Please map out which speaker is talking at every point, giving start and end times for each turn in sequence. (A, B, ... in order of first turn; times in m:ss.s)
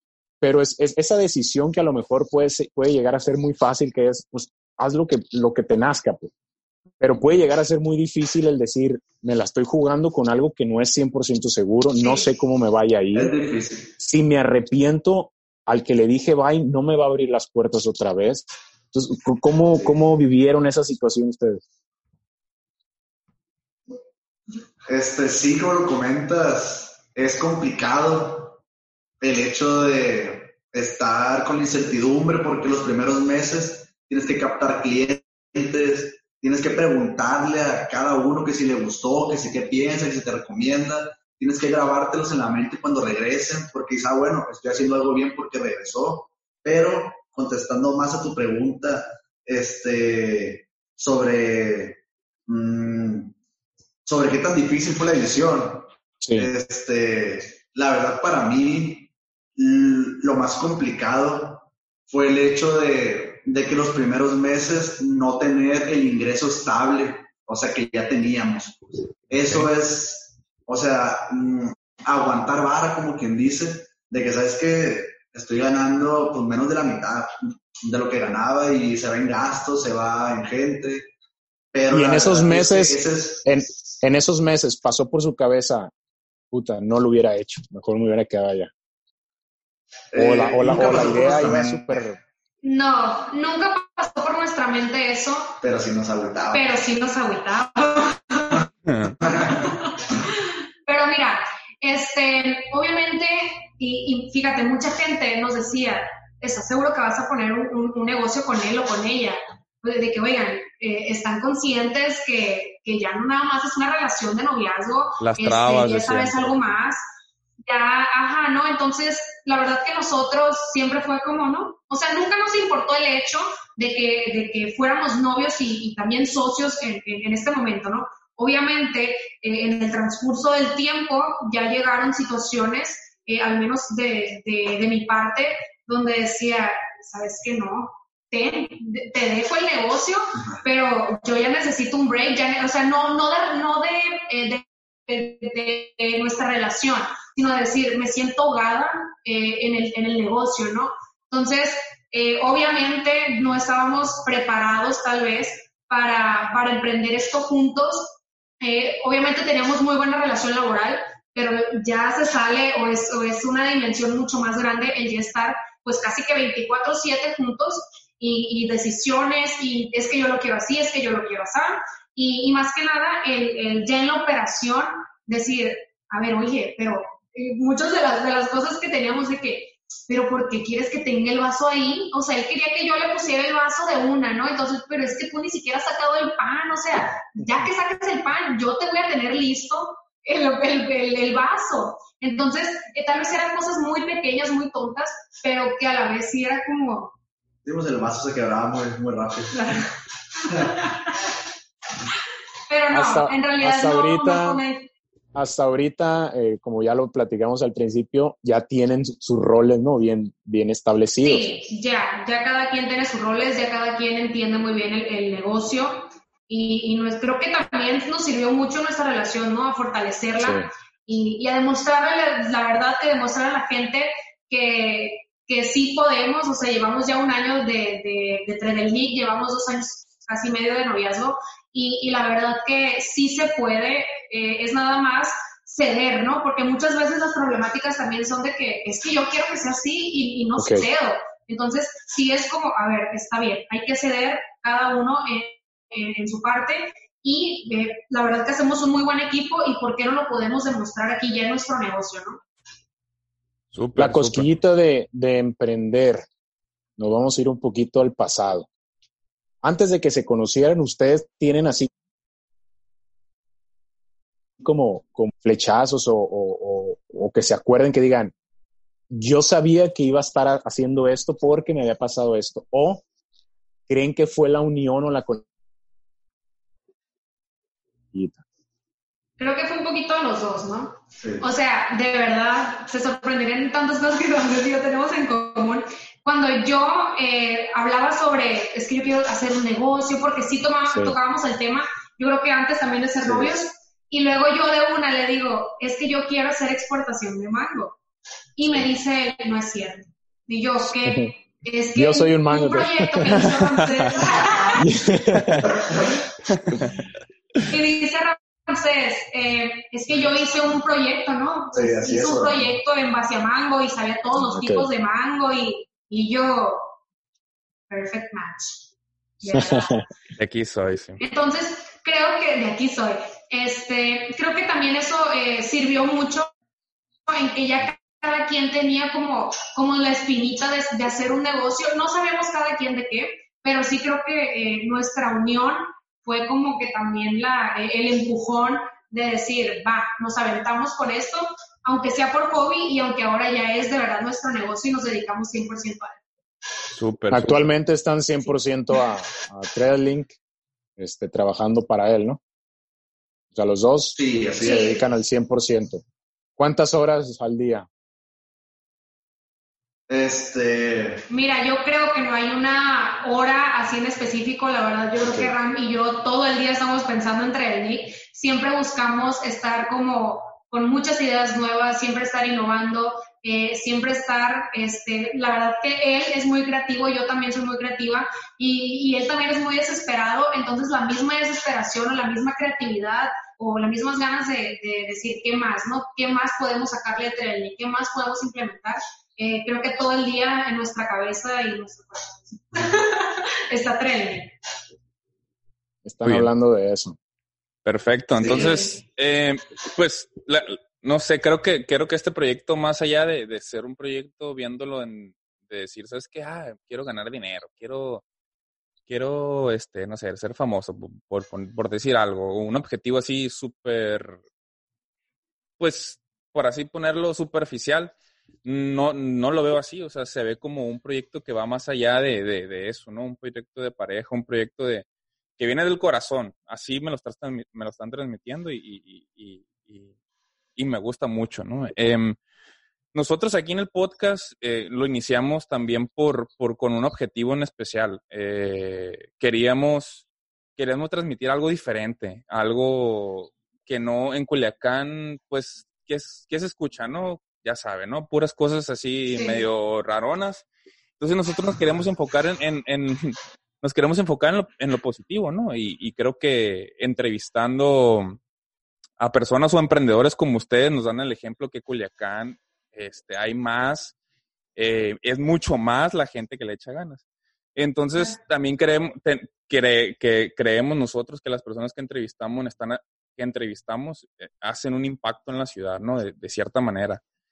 0:00.4-0:06.3 A
0:07.0-0:13.3 A
0:12.0-0:12.3 B
0:13.1-0:13.9 C
0:14.0-0:21.6 A
0:24.8-0:28.6 C
0:29.2-0:53.3 C
0:54.0-1:21.1 C
0:56.2-0:56.5 A
1:09.3-1:09.7 D
1:21.7-1:23.5 C
1:21.9-1:25.9 A
1:26.5-1:28.7 A
1:30.1-1:32.0 C
1:30.1-1:32.2 A
1:32.6-1:35.6 B
1:35.6-1:36.7 C
1:36.5-1:38.6 B
1:38.9-1:39.2 D
1:39.2-1:39.6 C
1:39.3-1:57.0 B
1:55.2-1:56.8 D
1:57.6-3:17.1 B
3:17.6-3:19.8 C
3:19.5-3:19.8 B
3:22.7-3:24.9 B
3:22.9-3:24.6 A
3:25.3-3:31.5 A
3:31.2-4:12.4 B
3:40.4-3:40.7 A
4:00.6-4:00.9 A
4:13.7-4:14.5 D
4:14.0-4:16.2 A
4:17.0-4:18.7 A
4:19.6-4:21.9 A
4:24.6-4:28.3 A
4:29.1-4:33.0 A
4:33.9-4:35.4 A
4:38.1-4:38.4 A
4:39.4-4:58.0 B
4:41.2-4:41.4 C
4:50.9-4:51.1 A
4:53.2-4:53.5 C
4:58.6-5:04.8 B
5:00.9-5:01.3 A
5:01.9-5:03.5 A
5:04.8-5:05.8 A
5:06.5-5:07.0 D
5:07.7-5:16.9 B
5:11.7-5:12.7 C
5:14.4-5:14.9 A
5:17.9-5:18.8 B
5:19.4-5:20.0 B
5:19.5-5:20.0 A
5:20.4-5:21.2 D
5:21.2-5:26.5 B
5:27.3-5:46.2 B
5:46.9-5:47.6 D
5:47.3-5:50.4 A
5:51.0-5:52.4 A
5:53.5-5:56.0 A
5:54.2-5:54.9 C
5:54.6-5:55.0 B
5:56.6-5:57.9 A
6:00.1-6:01.2 C
6:01.3-6:34.5 B
6:05.2-6:05.5 A
6:36.0-6:37.2 A
6:36.2-6:36.5 D
6:37.8-6:48.2 D
6:38.4-6:38.7 C
6:38.5-6:39.0 B
6:49.1-6:54.4 D
6:55.8-7:05.0 D
7:05.6-7:10.1 D
7:10.8-7:12.4 D
7:13.1-7:20.2 D
7:20.8-7:30.6 D
7:29.3-7:29.6 B
7:31.2-7:38.4 D
7:39.2-7:44.1 D
7:44.8-7:47.2 D
7:47.8-7:57.2 D